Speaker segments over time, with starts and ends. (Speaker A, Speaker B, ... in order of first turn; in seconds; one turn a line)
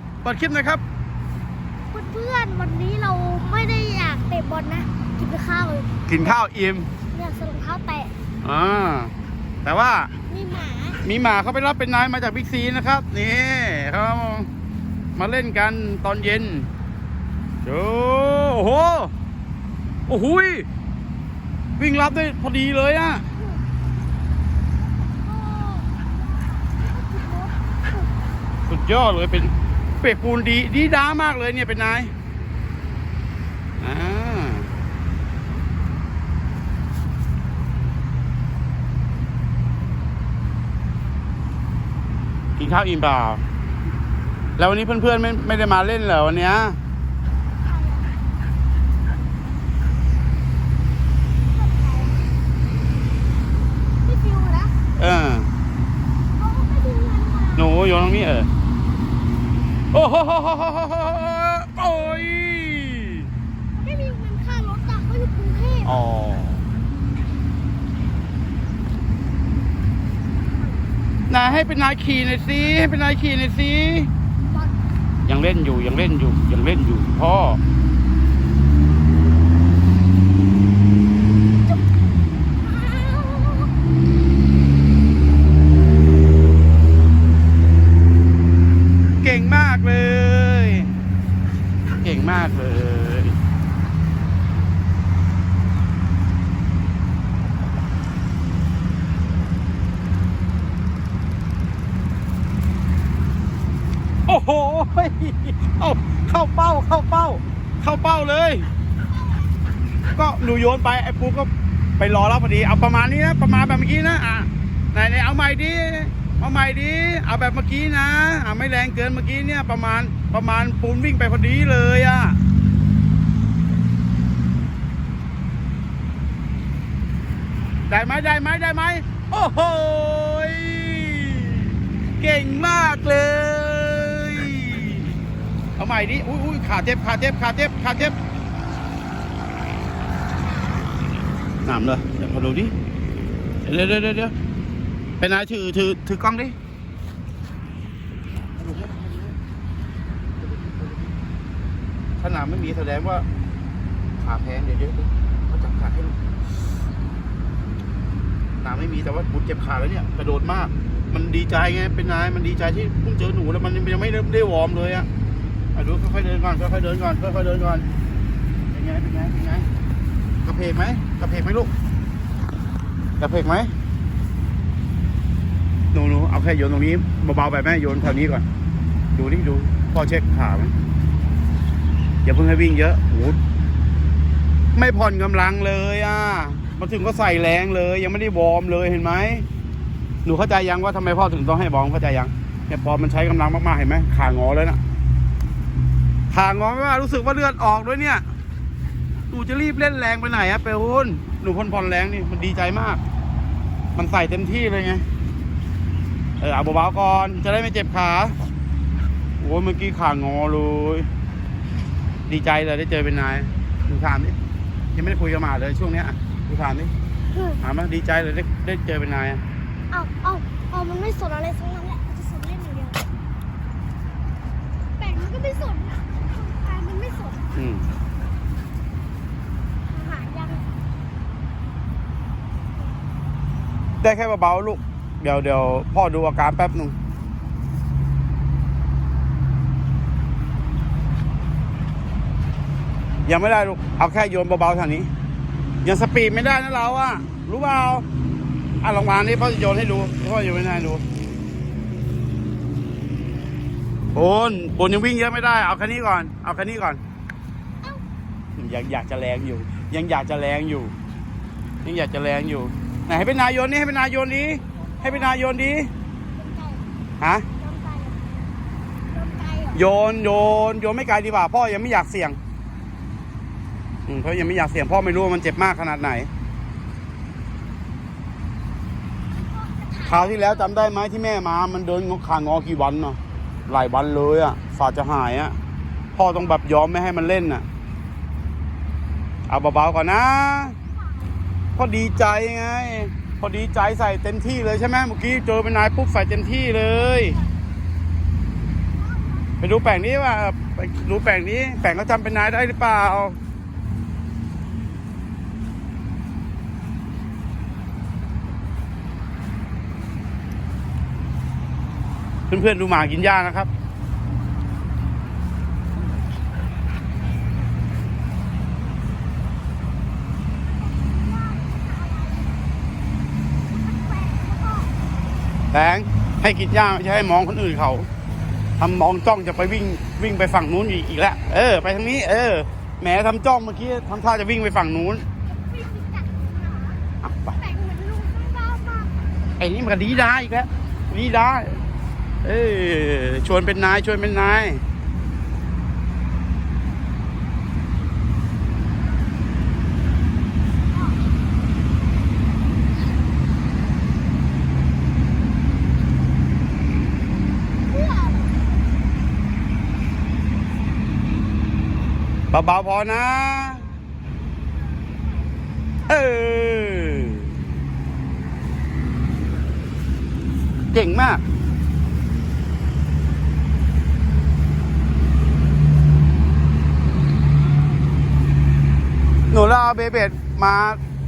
Speaker A: 0.2-0.8
Speaker B: 1.9-5.9
Speaker A: 6.1-6.9
Speaker B: 7.1-8.1
Speaker A: 8.4-9.1
Speaker A: 9.6-10.1
Speaker B: 10.3-11.0
Speaker A: 11.0-14.5
Speaker A: 15.2-16.7
Speaker A: 17.6-19.1
Speaker A: 20.1-20.7
Speaker A: 21.8-23.2
Speaker B: 23.3-23.6
Speaker B: 25.0-28.1
Speaker A: 28.7-32.1
Speaker A: 33.8-34.7
Speaker A: 42.6-43.5
Speaker A: 44.6-46.8
Speaker B: 47.6-48.1
Speaker B: 51.5-52.2
Speaker B: 54.0-54.7
Speaker A: 55.0-55.5
Speaker B: 56.4-57.7
Speaker A: 57.6-58.5
Speaker A: 59.9-63.3
Speaker B: 63.8-66.0
Speaker A: 65.8-66.6
Speaker A: 71.3-74.1
Speaker B: 74.5-74.7
Speaker A: 75.3-77.6
Speaker B: 82.6-83.7
Speaker A: 89.2-90.9
Speaker A: 92.0-93.4
Speaker A: 104.3-108.7
Speaker A: 110.2-122.4
Speaker A: 127.9-135.2
Speaker A: 135.8-138.1
Speaker A: 141.6-142.7
Speaker A: 143.6-144.3
Speaker A: 145.2-146.5
Speaker A: 148.6-149.3
Speaker A: 150.4-151.1
Speaker A: 152.2-153.2
Speaker A: 154.2-156.2
Speaker A: 158.6-165.1
Speaker A: 165.7-167.9
Speaker A: 168.7-169.7
Speaker A: 170.4-171.7
Speaker A: 173.2-173.7
Speaker A: 175.9-178.4
Speaker A: 179.1-180.7
Speaker A: 182.2-183.4
Speaker A: 184.7-189.4
Speaker A: 190.2-194.8
Speaker A: 196.3-198.2
Speaker A: 199.3-203.0
Speaker A: 203.9-205.0
Speaker A: 206.4-208.4
Speaker A: 209.4-211.1
Speaker A: 212.3-214.3
Speaker A: 214.9-216.9
Speaker B: 217.3-217.6
Speaker A: 217.6-219.4
Speaker B: 219.9-223.1
Speaker B: 225.0-227.5
Speaker A: 227.5-227.9
Speaker B: 229.9-230.7
Speaker A: 234.0-236.9
Speaker A: 243.2-245.1
Speaker A: 245.8-248.0
Speaker A: 248.8-251.0
Speaker A: 254.1-257.0
Speaker A: 258.6-260.9
Speaker A: 261.8-265.9
Speaker B: 264.7-265.4
Speaker B: 266.2-266.9
Speaker A: 267.2-267.5
Speaker B: 267.6-268.5
Speaker B: 269.1-269.9
Speaker A: 269.7-272.4
Speaker A: 274.1-276.3
Speaker B: 279.3-280.8
Speaker A: 280.0-285.6
Speaker A: 286.1-287.6
Speaker A: 289.5-290.8
Speaker B: 290.9-291.4
Speaker A: 291.8-297.4
Speaker B: 298.9-299.6
Speaker A: 299.6-303.4
Speaker A: 312.5-313.7
Speaker B: 320.6-322.7
Speaker B: 323.6-324.9
Speaker A: 325.7-328.1
Speaker A: 328.8-335.2
Speaker B: 335.5-337.0
Speaker A: 337.2-337.6
Speaker B: 337.6-339.2
Speaker A: 339.6-341.8
Speaker A: 342.4-344.8
Speaker B: 357.9-358.7
Speaker A: 362.5-363.9
Speaker B: 365.0-365.4
Speaker A: 366.1-367.6
Speaker A: 370.9-371.4
Speaker A: 379.5-381.0